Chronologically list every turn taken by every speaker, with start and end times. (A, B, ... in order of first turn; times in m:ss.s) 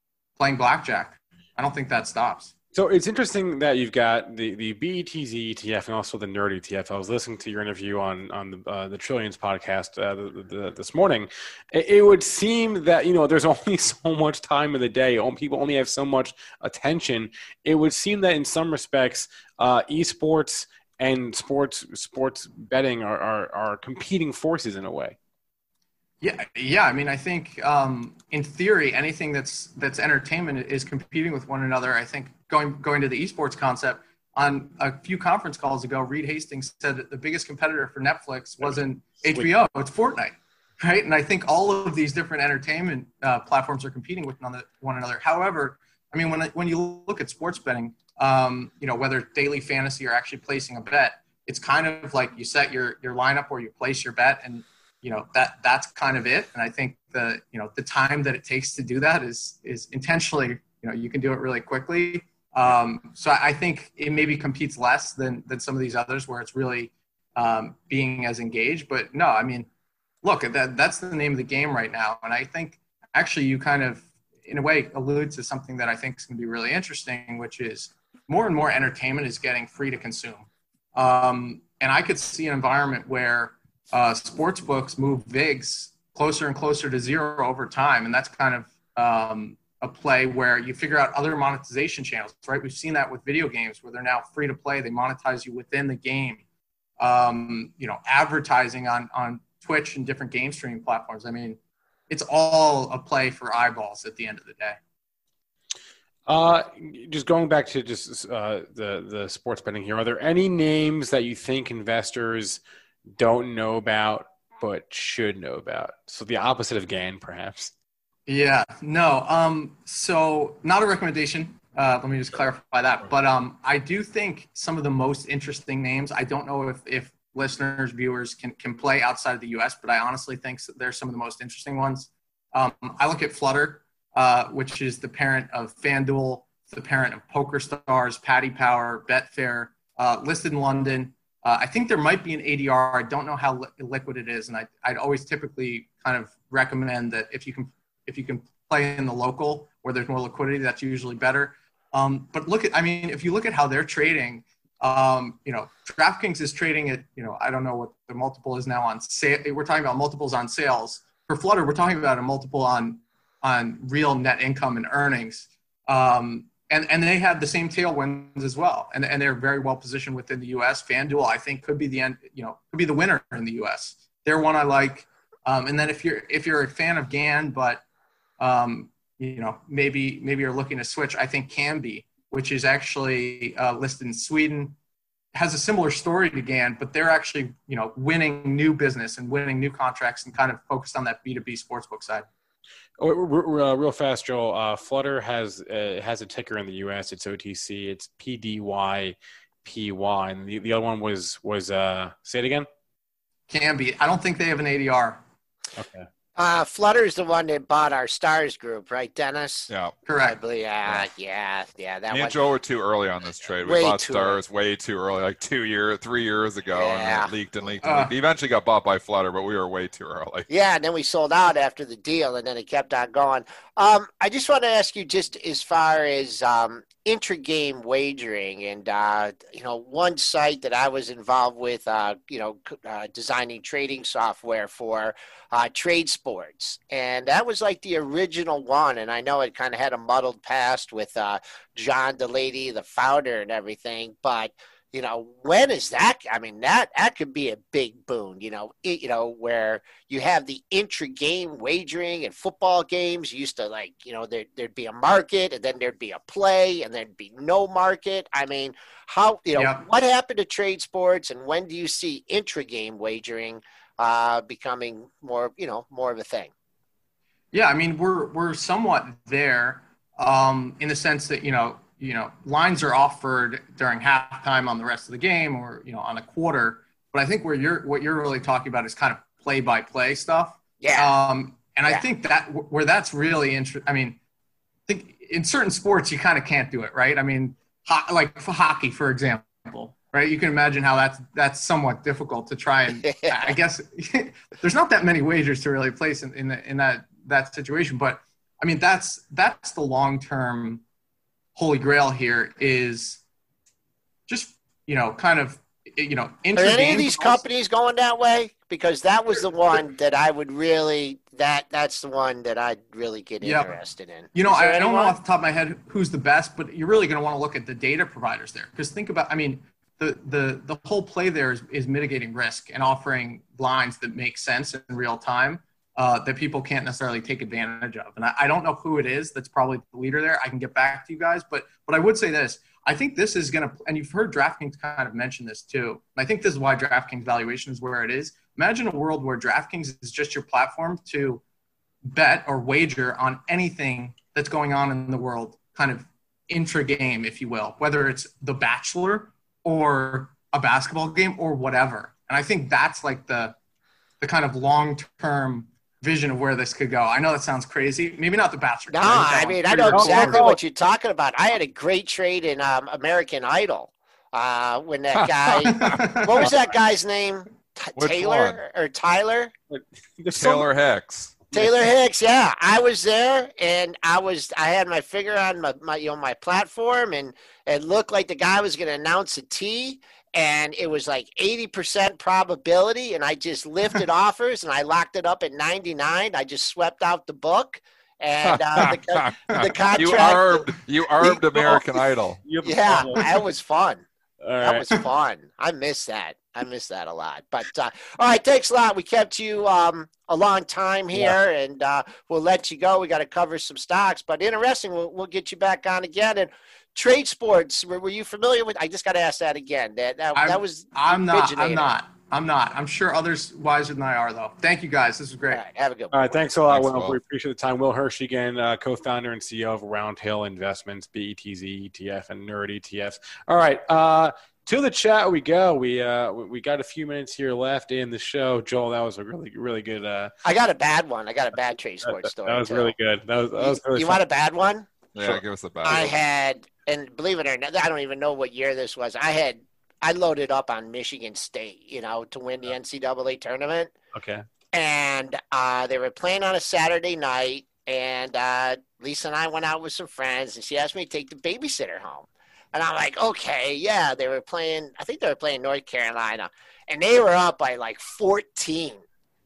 0:00.4-0:02.5 A
0:02.7-0:25.2 B
0:26.2-1:09.7 A
1:10.2-1:36.4 A
1:37.0-1:44.8 A
1:46.3-1:52.6 B
1:53.2-1:57.7 B
1:58.3-2:57.8 A
2:58.4-3:04.8 A
3:05.3-3:12.3 A
3:13.0-3:22.7 B
3:23.5-3:25.2 A
3:25.8-3:26.1 B
3:26.4-3:29.7 C
3:30.0-3:30.4 A
3:30.2-3:32.4 C
3:32.1-3:40.5 D
3:33.6-3:34.4 C
3:36.7-3:37.3 C
3:37.8-3:38.1 A
3:40.5-4:26.5 C
4:19.5-4:19.8 A
4:27.5-4:44.2 A
4:40.8-4:41.1 C
4:44.9-5:00.8 A
4:53.0-4:53.5 C
5:01.5-5:03.2 A
5:04.3-5:07.4 A
5:06.6-5:15.2 C
5:13.4-5:13.7 A
5:14.3-5:41.4 A
5:42.0-5:53.6 A
5:54.2-6:00.4 A
5:58.9-6:09.5 C
5:59.9-6:00.6 B
6:05.2-6:06.0 D
6:05.6-6:06.5 A
6:08.0-6:08.6 D
6:09.7-6:10.7 B
6:10.3-6:11.4 D
6:11.5-6:11.9 B
6:11.5-6:32.0 C
6:28.4-6:32.4 D
6:32.4-6:33.4 B
6:32.6-6:34.0 C
6:34.4-6:34.8 B
6:34.6-6:52.0 C
6:50.3-6:55.6 A
6:55.5-6:56.4 C
6:56.1-7:10.3 B
6:56.7-6:57.2 D
7:10.4-7:12.9 C
7:12.0-7:14.2 B
7:13.6-7:23.9 C
7:15.1-7:16.1 D
7:24.1-7:24.4 B
7:24.7-7:39.0 C